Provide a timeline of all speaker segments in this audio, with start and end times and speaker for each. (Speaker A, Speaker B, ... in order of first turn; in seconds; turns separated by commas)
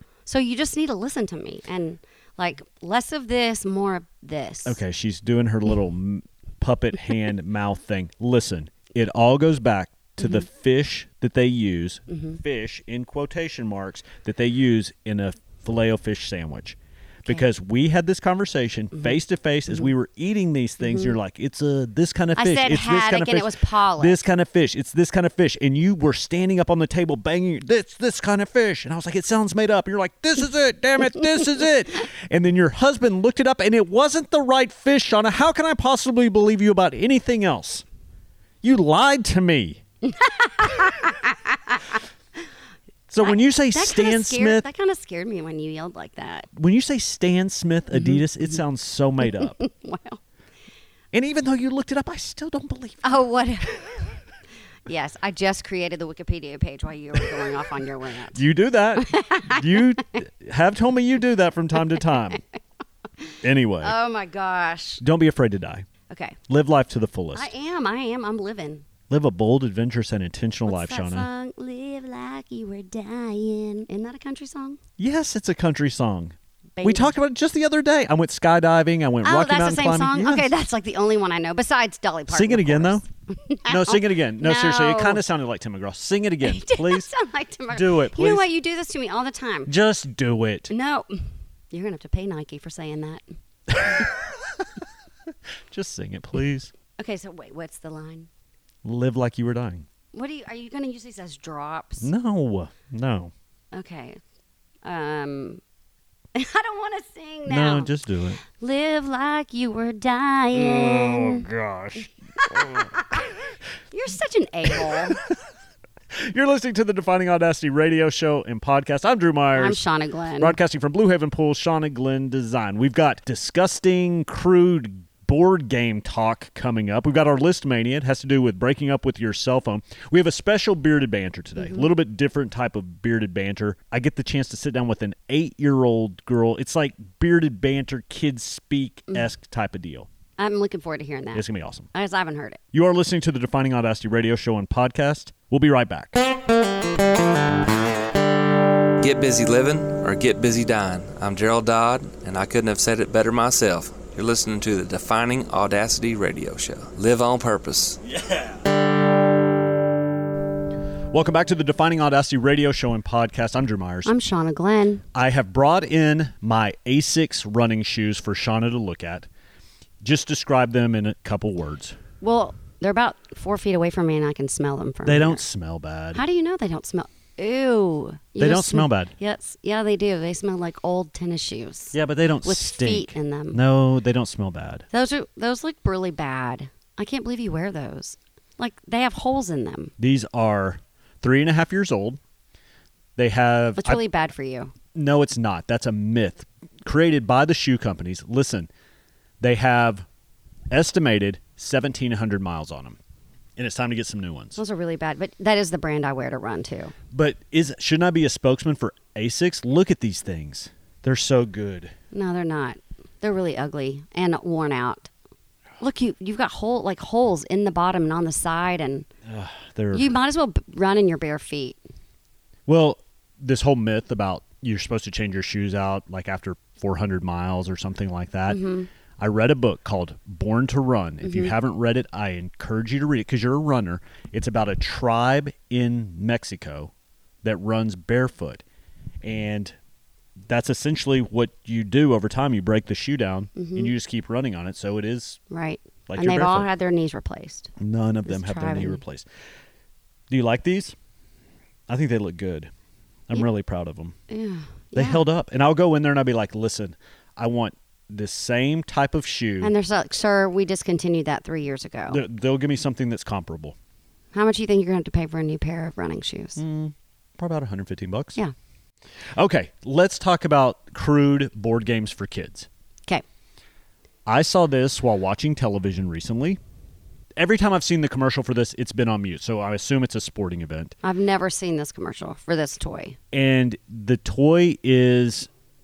Speaker A: 0.3-4.8, Speaker B: 4.7-37.9, Speaker A: 12.1-12.4, Speaker A: 20.8-21.1, Speaker A: 22.4-24.2, Speaker B: 38.6-39.8, Speaker A: 40.0-41.8, Speaker B: 43.1-44.7, Speaker A: 43.2-46.5, Speaker B: 46.5-49.6, Speaker A: 47.9-48.6, Speaker A: 49.2-50.2, Speaker B: 51.1-53.1, Speaker A: 53.0-54.1, Speaker A: 54.9-58.4, Speaker B: 58.3-62.4, Speaker A: 59.0-60.0, Speaker A: 63.2-65.0, Speaker B: 63.4-64.0, Speaker B: 65.0-65.9, Speaker A: 66.1-66.4, Speaker B: 66.5-67.5, Speaker A: 67.3-68.8, Speaker B: 69.1-71.3, Speaker A: 70.7-74.8, Speaker B: 75.0-80.5, Speaker A: 76.8-77.2, Speaker A: 79.2-85.2, Speaker B: 82.3-83.0, Speaker B: 83.7-87.1, Speaker A: 86.4-89.7, Speaker B: 87.7-88.5, Speaker B: 89.7-90.7, Speaker A: 90.7-93.2, Speaker B: 93.7-94.7, Speaker B: 95.7-96.7, Speaker A: 97.0-98.3, Speaker B: 98.8-99.9, Speaker A: 100.1-102.1, Speaker B: 102.0-103.3, Speaker A: 103.7-104.2, Speaker A: 104.8-105.6, Speaker A: 106.3-107.9, Speaker B: 107.5-108.4, Speaker A: 108.6-111.5, Speaker B: 110.5-113.2, Speaker A: 112.6-113.2, Speaker A: 113.9-115.2, Speaker B: 116.1-119.8, Speaker A: 119.5-120.6, Speaker B: 120.4-140.1, Speaker A: 131.6-131.9, Speaker A: 140.4-142.6, Speaker B: 141.3-141.9, Speaker B: 142.7-146.3, Speaker C: 149.0-158.0, Speaker B: 158.1-158.6, Speaker B: 161.1-164.1, Speaker A: 164.1-165.0, Speaker B: 165.1-169.3, Speaker B: 170.0-172.0, Speaker A: 172.2-175.4, Speaker B: 175.1-176.2, Speaker A: 176.1-183.6, Speaker B: 178.4-179.1, Speaker B: 181.9-184.9, Speaker A: 184.9-189.9, Speaker B: 190.0-192.2, Speaker B: 193.2-194.0, Speaker A: 193.8-194.7, Speaker B: 194.9-198.7, Speaker B: 199.4-200.1, Speaker B: 200.7-203.0, Speaker B: 203.6-204.6, Speaker A: 204.6-206.9, Speaker B: 207.1-211.9, Speaker A: 212.1-215.1, Speaker A: 215.8-219.1, Speaker B: 219.3-220.1, Speaker A: 219.9-221.8, Speaker B: 222.7-228.6, Speaker A: 228.5-228.9, Speaker B: 229.2-236.9, Speaker A: 231.2-231.5, Speaker B: 237.4-238.6, Speaker B: 239.2-239.8, Speaker B: 240.5-245.4, Speaker A: 243.6-243.9, Speaker A: 245.5-247.7, Speaker B: 246.1-246.7, Speaker B: 247.8-249.3, Speaker A: 248.3-249.0, Speaker B: 250.3-251.0, Speaker B: 251.9-252.7, Speaker B: 253.3-254.2, Speaker A: 254.3-255.2, Speaker B: 254.9-259.7, Speaker A: 259.6-262.2, Speaker B: 262.1-263.8, Speaker A: 264.3-266.6, Speaker B: 266.6-268.4, Speaker B: 269.4-272.7, Speaker B: 274.3-276.6, Speaker B: 277.4-280.9, Speaker A: 281.0-283.2, Speaker B: 283.3-285.5